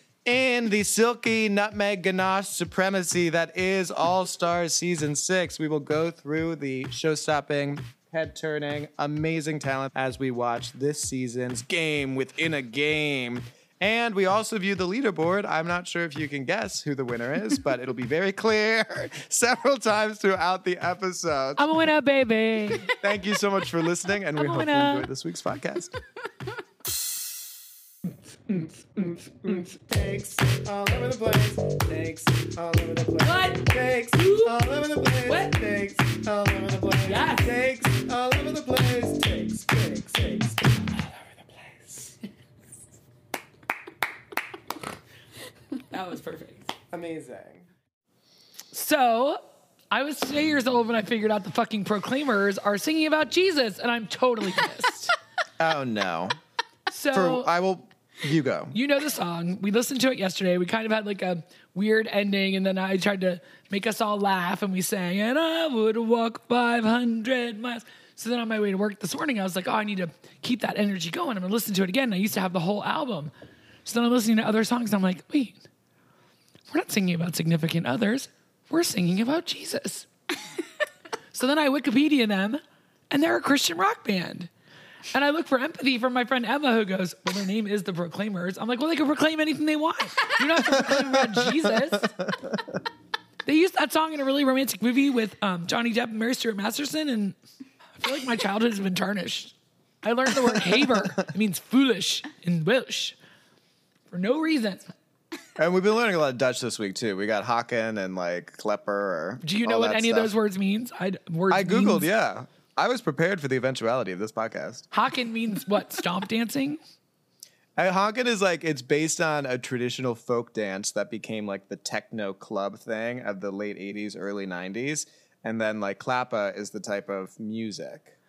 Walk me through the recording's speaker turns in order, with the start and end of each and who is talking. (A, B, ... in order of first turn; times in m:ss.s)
0:00.2-0:21.6 A
0:21.6-0:23.0 B
0:23.0-0:25.9 A
0:24.4-0:25.1 B
0:28.5-0:42.2 A
0:33.2-0:34.5 B
0:35.2-0:35.6 B
0:37.0-0:37.5 B
0:45.9-0:46.7 B
0:46.9-0:47.6 A
0:48.7-0:55.1 B
0:55.6-0:56.4 A
0:56.9-0:57.5 B
0:57.1-0:58.8 A
0:58.7-1:13.3 B
1:13.8-1:15.6 B
1:16.7-1:20.1 B
1:21.3-1:24.5 B
1:25.1-1:32.2 B
1:33.4-1:37.4 B
1:38.0-1:43.2 B
1:44.1-1:44.8 B
1:45.6-1:50.3 A
1:49.4-1:52.1 B
1:51.5-1:54.8 A
1:54.9-1:56.8 B
1:57.8-2:08.1 A